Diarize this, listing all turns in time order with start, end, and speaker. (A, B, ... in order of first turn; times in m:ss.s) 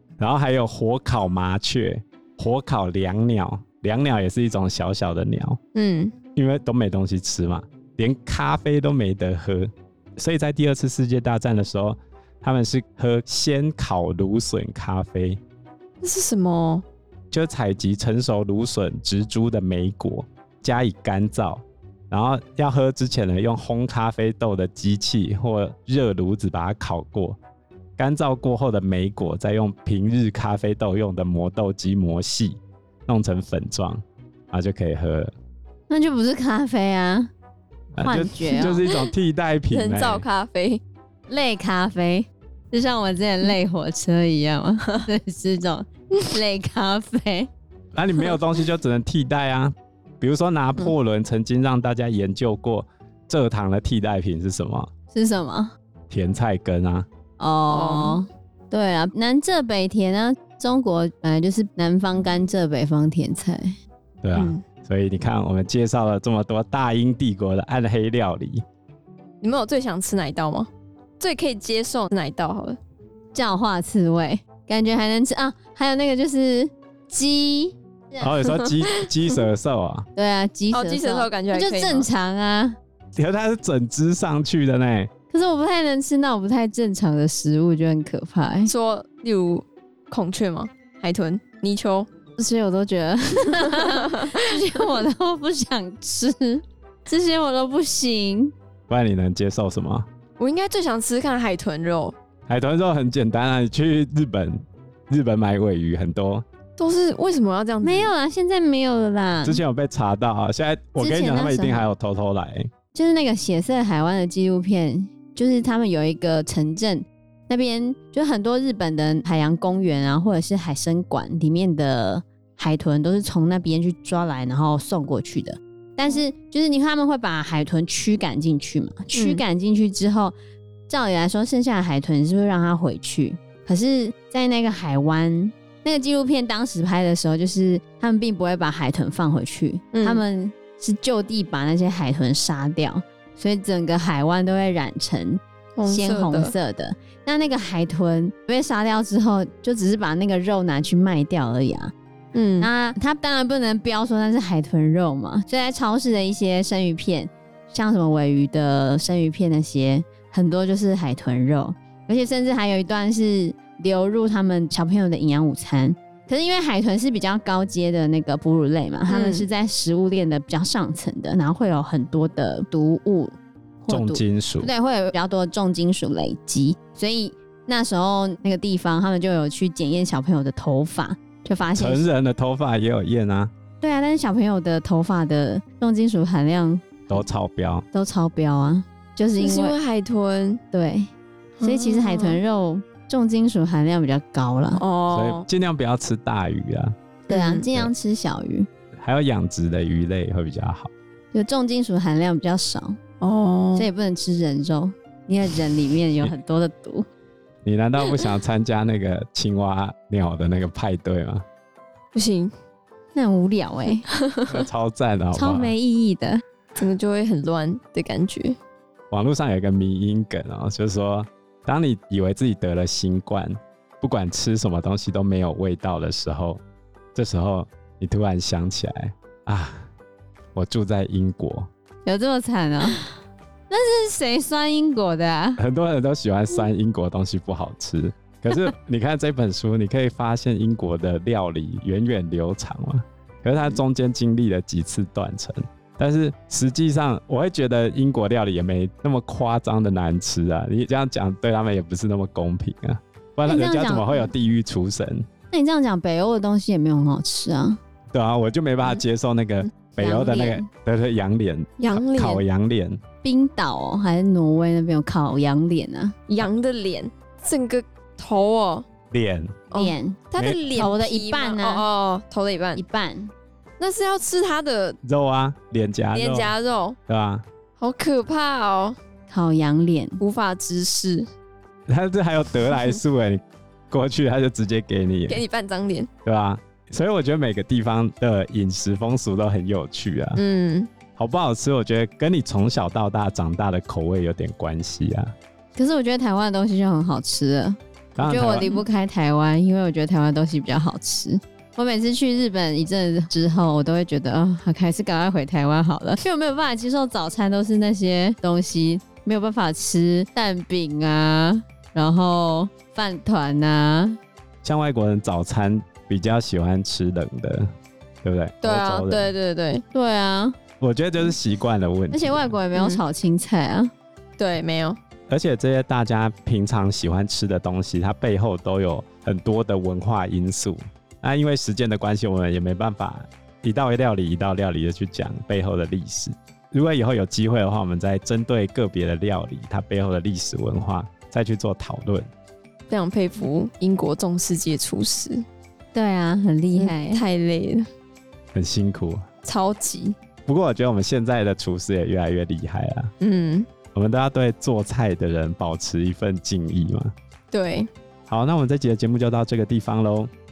0:00.2-0:05.6 A
0:05.7-0:06.1 B
0:06.3-0:15.4 A
0:16.0-0:16.8 B
0:17.3-0:27.4 A
0:28.0-0:35.3 A
0:35.9-0:37.3 C
0:38.0-0:40.2 A
0:38.0-0:38.8 C
0:38.5-0:39.1 B
0:39.7-0:40.8 B
0:41.3-0:47.5 C
0:47.9-0:54.9 A
0:55.1-0:55.7 C
0:56.1-0:57.1 A
0:57.4-1:03.7 C
0:57.7-0:58.2 B
1:04.2-1:08.6 A
1:04.3-1:04.6 B
1:09.4-1:12.8 B
1:13.3-1:18.3 C
1:18.2-1:20.1 A
1:20.2-1:22.8 C
1:20.7-1:22.1 B
1:23.2-1:25.1 A
1:25.3-1:28.7 C
1:28.6-1:32.1 B
1:32.4-1:38.5 C
1:33.8-1:34.8 B
1:38.9-1:40.1 A
1:40.4-1:42.1 B
1:42.5-1:46.4 A
1:46.8-1:48.1 B
1:47.8-1:49.6 C
1:49.4-1:52.7 A
1:51.0-1:51.9 C
1:52.9-2:10.3 C
2:09.1-2:09.4 B
2:10.9-2:31.9 C
2:19.9-2:20.2 B
2:25.8-2:26.5 B
2:32.3-2:32.7 B
2:32.6-3:02.1 C
2:49.1-2:49.4 B
2:53.9-2:54.7 A
3:01.7-3:03.5 A
3:03.8-3:07.2 C
3:07.1-3:07.8 A
3:07.9-3:09.8 C
3:09.4-3:10.6 B
3:10.7-3:11.1 C
3:11.6-3:12.4 B
3:11.6-3:14.8 C
3:14.7-3:15.5 B
3:15.1-3:16.9 A
3:17.3-3:17.7 B
3:17.3-3:18.7 C
3:19.0-3:20.9 A
3:21.3-3:23.0 C
3:23.2-3:23.9 B
3:23.8-3:27.0 C
3:27.6-3:31.4 A
3:32.1-3:32.5 B
3:33.1-3:34.0 C
3:34.2-3:34.7 B
3:34.5-3:35.7 A
3:35.3-3:36.4 C
3:36.8-3:38.6 B
3:39.1-3:46.6 A
3:47.1-3:49.9 A
3:50.5-3:51.7 A
3:52.0-3:53.2 C
3:53.7-3:55.6 C
3:55.6-4:15.2 A
4:13.4-4:14.3 C
4:15.5-4:17.8 C
4:18.1-4:23.0 A
4:19.9-4:20.7 C
4:21.8-4:22.4 B
4:23.2-4:26.2 C
4:26.3-4:28.8 B
4:29.1-4:29.6 A
4:29.7-4:32.8 B
4:29.7-4:30.2 C
4:30.4-4:30.6 A
4:30.7-4:31.8 C
4:32.7-4:33.3 C
4:33.8-4:35.0 B
4:35.0-4:36.5 A
4:36.1-4:37.0 B
4:37.1-4:37.4 A
4:37.8-4:39.0 B
4:39.3-4:40.2 C
4:40.2-4:41.3 B
4:41.9-4:45.4 A
4:45.3-4:46.1 B
4:46.2-4:50.4 A
4:50.3-4:50.9 B
4:51.2-4:55.3 A
4:55.7-5:14.2 C
4:58.2-4:58.7 A
5:14.6-5:17.7 A
5:18.2-5:19.3 A
5:18.6-5:19.8 B
5:19.9-5:20.6 C
5:20.8-5:22.5 A
5:22.1-5:23.9 C
5:22.7-5:23.0 B
5:24.4-5:25.0 B
5:25.3-5:42.3 A
5:42.9-5:45.4 B
5:45.9-5:47.2 C
5:46.8-5:47.9 B
5:48.5-5:49.2 A
5:49.4-5:50.2 B
5:50.4-5:53.1 A
5:53.2-5:53.7 B
5:53.9-5:57.1 A
5:57.5-5:57.9 B
5:58.3-6:00.3 A